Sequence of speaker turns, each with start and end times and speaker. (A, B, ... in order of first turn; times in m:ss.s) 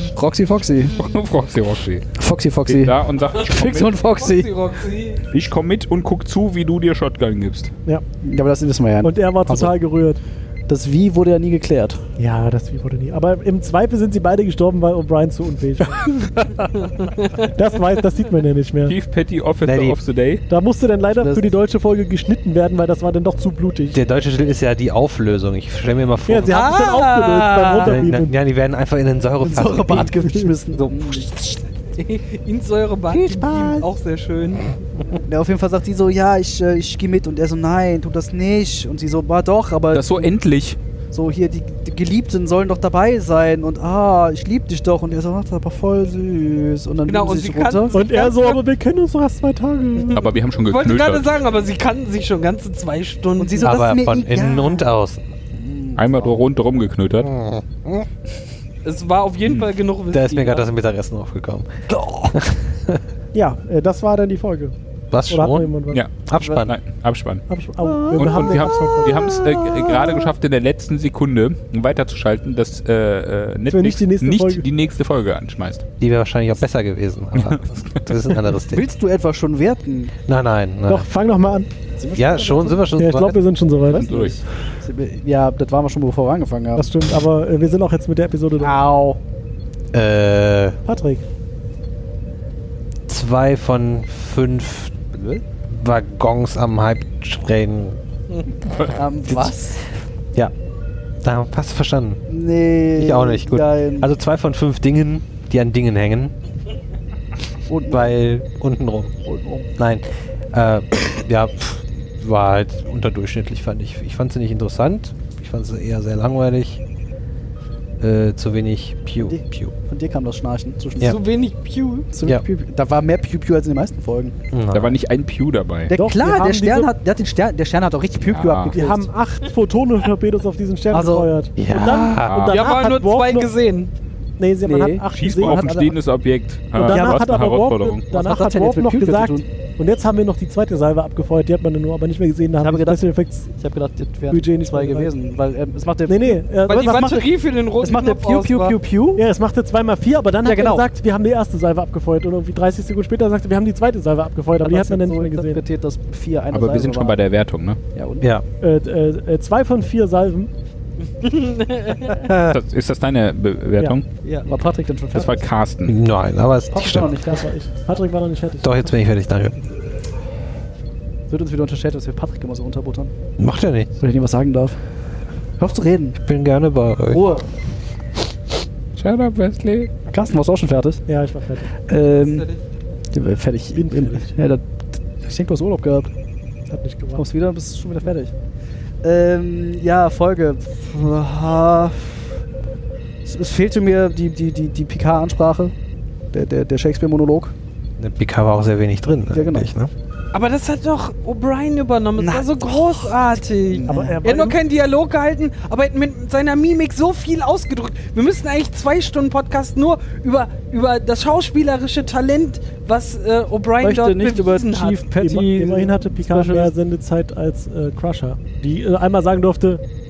0:00.1-0:01.0 A
0:00.9-0:02.1 B
0:02.2-0:04.5 A
0:02.6-0:04.0 B
0:04.0-0:05.2 C
0:05.3-0:07.7 B
0:08.2-0:09.7 A
0:09.0-0:10.2 D
0:10.7-0:12.0 A
0:12.2-0:16.3 D
0:16.7-0:17.5 C
0:17.5-0:19.0 D
0:18.9-0:20.4 B
0:19.6-0:20.0 E
0:20.5-0:24.0 D
0:21.2-0:21.5 A
0:23.9-0:26.7 E
0:26.3-0:28.4 D
0:26.5-0:28.0 C
0:27.8-0:30.2 E
0:29.4-0:31.3 A
0:30.9-0:34.8 C
0:33.1-0:33.8 A
0:33.3-0:33.8 E
0:35.2-0:40.3 A
0:39.9-0:40.8 B
0:41.1-0:48.0 A
0:47.0-0:48.6 C
0:47.9-0:50.2 D
0:50.0-0:53.7 C
0:50.1-0:51.4 B
0:53.4-0:54.9 A
0:53.6-0:55.3 E
0:55.5-0:56.4 A
0:56.0-0:57.3 B
0:57.2-0:58.0 E
0:58.8-1:00.7 C
1:00.1-1:01.7 E
1:01.9-1:02.3 A
1:02.3-1:03.0 E
1:03.3-1:04.7 D
1:05.1-1:05.8 E
1:05.3-1:06.0 D
1:05.9-1:07.4 B
1:06.3-1:06.7 E
1:06.3-1:06.7 A
1:07.5-1:09.4 D
1:07.8-1:10.3 A
1:08.1-1:15.9 B
1:13.7-1:14.6 D
1:16.0-1:18.8 E
1:17.3-1:18.4 B
1:18.7-1:20.1 A
1:20.2-1:21.1 E
1:20.9-1:21.7 D
1:22.0-1:22.8 A
1:22.2-1:23.4 E
1:22.9-1:24.0 D
1:23.9-1:26.9 A
1:23.9-1:24.4 B
1:26.8-1:28.7 D
1:28.6-1:29.2 A
1:29.9-1:30.8 E
1:30.8-1:31.2 D
1:33.1-1:38.0 E
1:38.8-1:39.8 A
1:38.8-1:39.5 E
1:41.2-1:42.2 E
1:42.3-1:44.1 A
1:42.9-1:46.3 E
1:47.7-1:48.2 A
1:47.9-1:49.1 E
1:49.2-1:49.7 A
1:49.8-1:56.8 E
1:58.0-1:59.7 E
1:59.2-2:01.2 A
2:01.0-2:02.1 C
2:02.1-2:04.4 A
2:04.5-2:05.0 E
2:04.7-2:05.9 B
2:05.9-2:09.1 A
2:05.9-2:06.9 D
2:08.2-2:08.8 B
2:08.7-2:13.5 D
2:10.9-2:11.3 A
2:11.6-2:12.5 E
2:12.5-2:13.9 C
2:14.4-2:15.8 D
2:14.6-2:15.9 A
2:15.1-2:18.0 B
2:16.8-2:17.2 A
2:16.8-2:23.5 D
2:18.1-2:19.4 A
2:22.6-2:27.3 A
2:24.3-2:25.1 D
2:26.1-2:27.1 D
2:26.6-2:28.8 C
2:27.8-2:29.2 A
2:29.2-2:35.6 D
2:30.4-2:30.9 A
2:34.6-2:37.2 A
2:36.5-2:37.8 B
2:37.9-2:38.3 A
2:38.6-2:40.5 D
2:41.2-2:42.2 C
2:42.1-2:42.6 D
2:42.5-2:44.0 B
2:44.2-2:45.4 A
2:45.1-2:45.9 B
2:45.9-2:47.2 E
2:46.7-2:47.5 A
2:47.2-2:49.1 D
2:48.6-2:49.6 E
2:51.3-2:53.1 A
2:53.4-2:53.9 E
2:54.0-2:54.8 A
2:55.6-2:56.2 A
2:56.2-2:57.2 E
2:57.1-2:57.4 A
2:58.9-2:59.9 B
3:00.1-3:01.0 A
3:01.1-3:01.7 D
3:01.9-3:02.5 A
3:02.1-3:02.6 C
3:03.1-3:04.6 A
3:03.7-3:04.3 D
3:05.2-3:06.1 A
3:06.7-3:07.2 D
3:07.2-3:08.3 A
3:09.0-3:12.3 A
3:13.2-3:15.7 A
3:16.3-3:17.5 A
3:18.0-3:19.9 E
3:19.3-3:19.7 A
3:20.3-3:35.0 C
3:22.2-3:24.2 A
3:23.9-3:24.6 D
3:33.8-3:36.7 A
3:35.0-3:39.8 D